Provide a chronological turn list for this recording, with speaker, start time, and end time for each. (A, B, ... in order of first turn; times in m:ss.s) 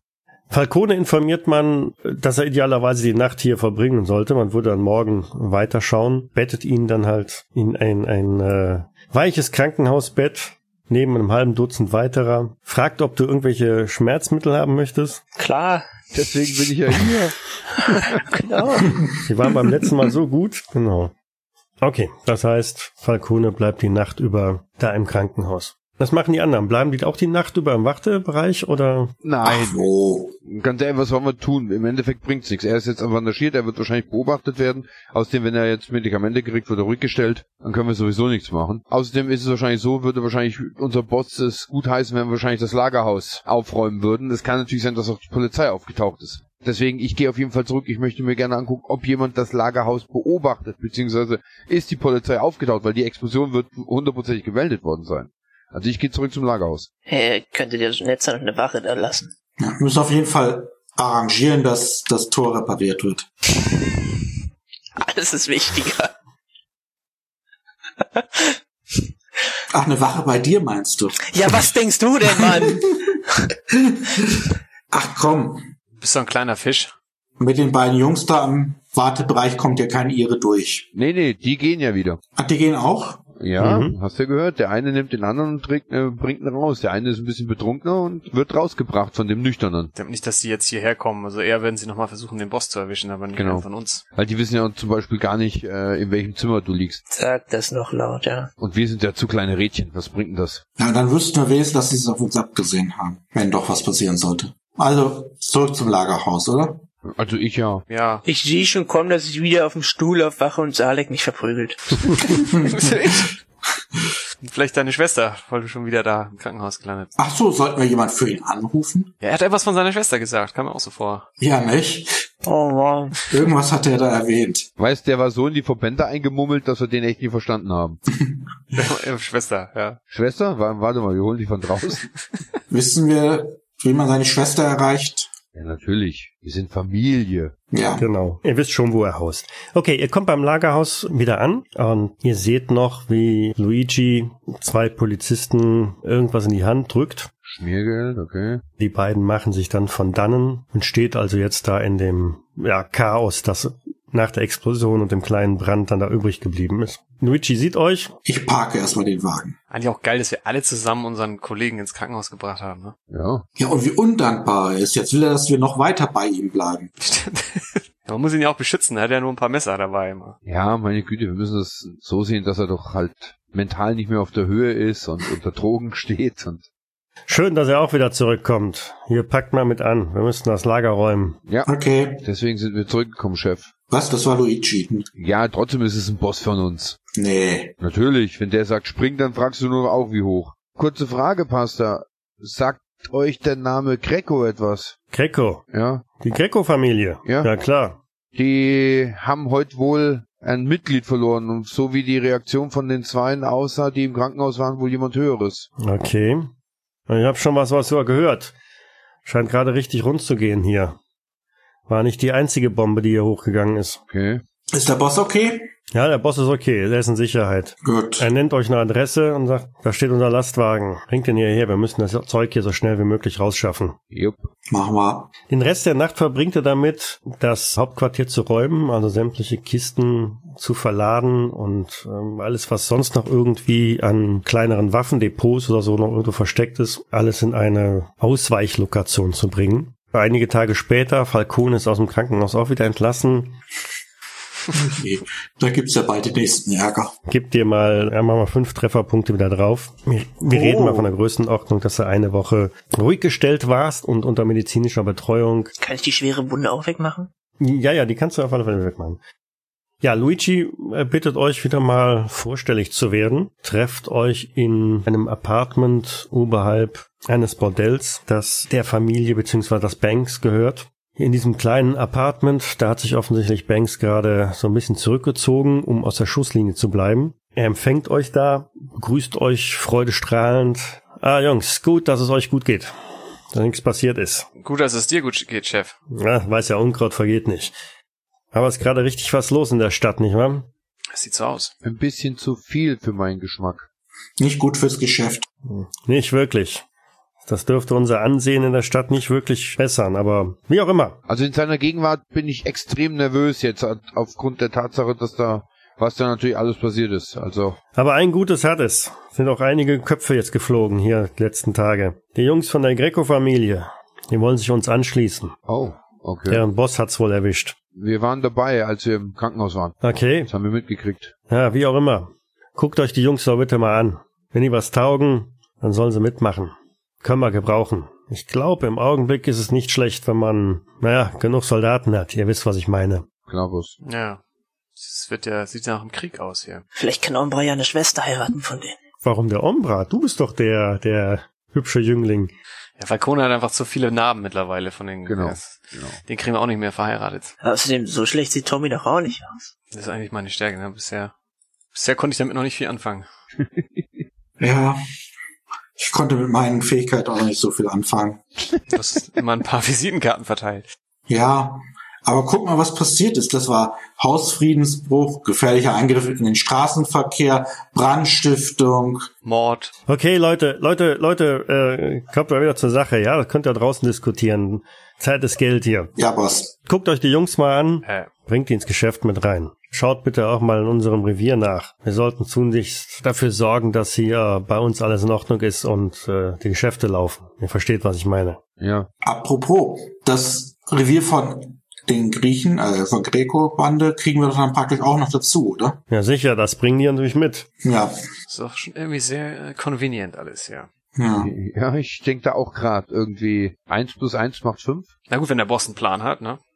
0:00.5-0:15.2 A
0:15.4-0:15.9 B
0:16.1-0:18.2 C
0:18.0-0:19.0 B
0:19.2-0:21.1 A
0:21.8-0:29.1 A
0:29.2-0:29.9 C
0:29.4-0:30.4 D
0:30.4-0:56.9 C
0:57.1-0:59.3 B
0:59.6-1:03.3 D
1:05.0-1:06.1 B
1:08.2-1:08.6 B
1:09.7-1:11.3 D
1:11.3-1:13.0 B
1:13.7-1:15.7 D
1:16.0-1:16.9 E
1:17.4-1:20.9 D
1:20.9-1:22.2 C
1:22.4-1:23.3 D
1:23.4-1:29.9 C
1:23.6-1:24.0 A
1:30.0-1:34.0 E
1:33.4-1:37.0 C
1:37.1-1:38.5 B
1:38.6-1:40.6 C
1:40.8-1:46.8 D
1:47.0-1:47.8 C
1:47.9-1:48.2 E
1:48.2-1:52.2 B
1:52.3-1:53.1 D
1:52.7-1:53.3 E
1:54.4-1:57.1 E
1:57.2-1:59.1 D
1:59.2-2:01.3 E
2:01.4-2:02.2 D
2:02.4-2:03.2 B
2:03.3-2:04.7 D
2:04.8-2:08.0 C
2:08.2-2:08.8 D
2:08.7-2:10.0 E
2:10.1-2:12.1 C
2:12.7-2:15.3 D
2:15.5-2:17.5 C
2:17.7-2:18.1 D
2:18.0-2:27.3 A
2:27.4-2:28.6 C
2:28.8-2:38.1 A
2:38.2-2:39.6 D
2:39.7-2:43.0 E
2:43.1-2:43.4 C
2:43.6-2:46.9 D
2:47.0-2:50.4 E
2:50.4-2:56.7 C
2:57.3-3:01.4 A
3:01.7-3:02.2 D
3:02.2-3:03.7 C
3:03.9-3:05.1 D
3:05.2-3:07.0 C
3:07.1-3:07.8 D
3:07.8-3:15.0 C
3:15.1-3:15.6 A
3:15.7-3:16.1 C
3:16.2-3:18.0 A
3:17.2-3:17.5 C
3:18.3-3:25.7 C
3:25.8-3:26.5 A
3:27.1-3:28.6 A
3:29.2-3:31.0 A
3:31.9-3:34.0 A
3:34.1-3:34.4 C
3:34.7-3:35.7 D
3:35.9-3:44.0 A
3:37.8-3:38.3 D
3:44.1-3:44.5 C
3:44.7-3:45.3 D
3:45.5-4:03.6 A
4:04.7-4:07.1 D
4:07.3-4:15.7 A
4:10.5-4:11.1 B
4:15.8-4:17.3 B
4:17.6-4:19.2 A
4:20.0-4:42.9 A
4:43.5-4:44.5 A
4:44.6-4:46.0 E
4:46.1-4:47.8 A
4:48.5-4:50.7 A
4:51.1-4:51.7 E
4:51.8-4:53.9 C
4:54.4-4:55.5 D
4:55.6-4:56.8 A
4:57.4-5:01.2 A
5:01.3-5:07.8 C
5:08.0-5:15.6 A
5:15.7-5:16.6 C
5:16.5-5:17.8 A
5:17.9-5:21.4 C
5:20.0-5:20.5 A
5:21.5-5:33.3 A
5:33.5-5:34.0 C
5:34.0-5:34.4 E
5:35.0-5:36.8 E
5:37.0-5:39.0 B
5:39.2-5:42.5 A
5:43.0-5:47.5 E
5:45.3-5:46.2 C
5:47.6-5:49.7 B
5:49.9-5:51.3 E
5:51.9-5:53.3 E
5:53.6-5:54.0 C
5:54.6-5:55.0 D
5:56.0-5:58.4 D
5:58.9-6:00.9 E
6:01.3-6:09.3 D
6:09.4-6:09.9 E
6:10.1-6:16.1 A
6:16.2-6:16.8 D
6:16.9-6:28.6 A
6:28.8-6:29.1 C
6:29.2-6:36.0 D
6:36.1-6:37.7 A
6:37.8-6:38.1 D
6:38.5-6:40.9 E
6:41.2-6:41.5 D
6:41.4-6:45.1 C
6:45.3-6:46.6 E